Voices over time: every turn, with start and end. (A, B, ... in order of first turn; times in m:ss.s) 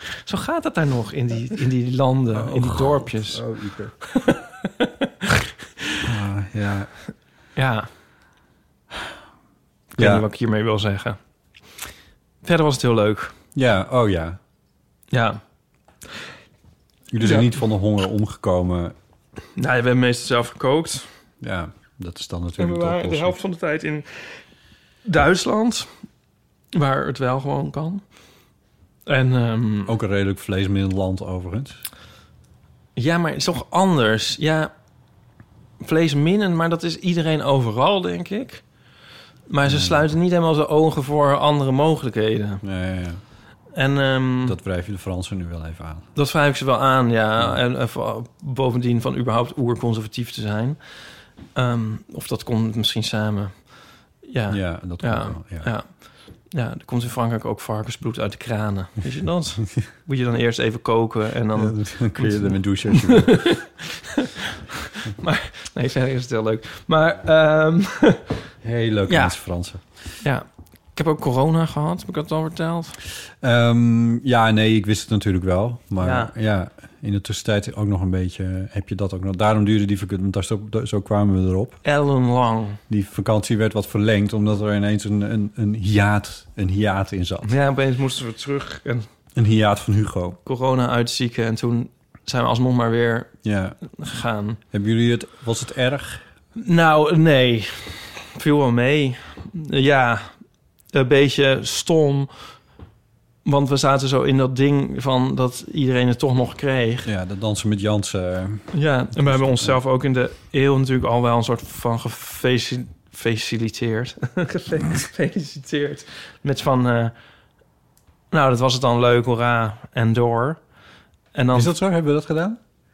0:00.2-0:03.4 A
0:02.3-0:04.0 B
0:04.0-0:06.0 A
0:06.0-0:06.9 B
0:07.6-0:07.9 A
0:09.9-0:11.2 A
0:10.0-0:10.2 B
0:12.4-0:13.3 A
0:13.5-0:14.4 B
0:15.1-0:15.4 A
0:17.1-0:18.9 B
0:17.2-0:17.5 A
0:19.6-0:21.0 A
0:21.4-0:23.4 B
0:22.6-0:24.4 A
0:25.0-0:25.9 A
0:26.7-0:28.0 A
0:29.1-0:29.9 A
0:29.8-0:31.8 B
0:33.0-0:34.7 A
0:35.8-0:38.6 A
0:39.5-0:42.6 A
0:39.6-0:40.0 B
0:42.6-0:43.2 B
0:43.8-0:44.6 A
0:44.4-0:46.1 B
0:46.2-0:50.8 A
0:51.5-0:53.7 A
0:54.2-1:03.7 A
0:54.5-0:55.7 B
1:01.5-1:03.5 B
1:05.1-1:08.3 A
1:08.6-1:09.8 B
1:09.1-1:09.4 A
1:10.2-1:13.0 A
1:13.4-1:21.8 B
1:16.0-1:16.3 A
1:21.8-1:22.8 A
1:22.9-1:27.5 B
1:27.4-1:29.1 A
1:29.4-1:30.4 B
1:30.4-1:33.3 A
1:33.4-1:33.8 B
1:33.9-1:34.6 A
1:34.7-1:36.2 B
1:36.6-1:40.3 A
1:40.9-1:42.3 A
1:43.4-1:47.1 A
1:47.0-1:49.8 B
1:48.7-1:57.1 A
1:58.3-2:00.6 A
2:01.3-2:01.7 A
2:01.5-2:02.6 B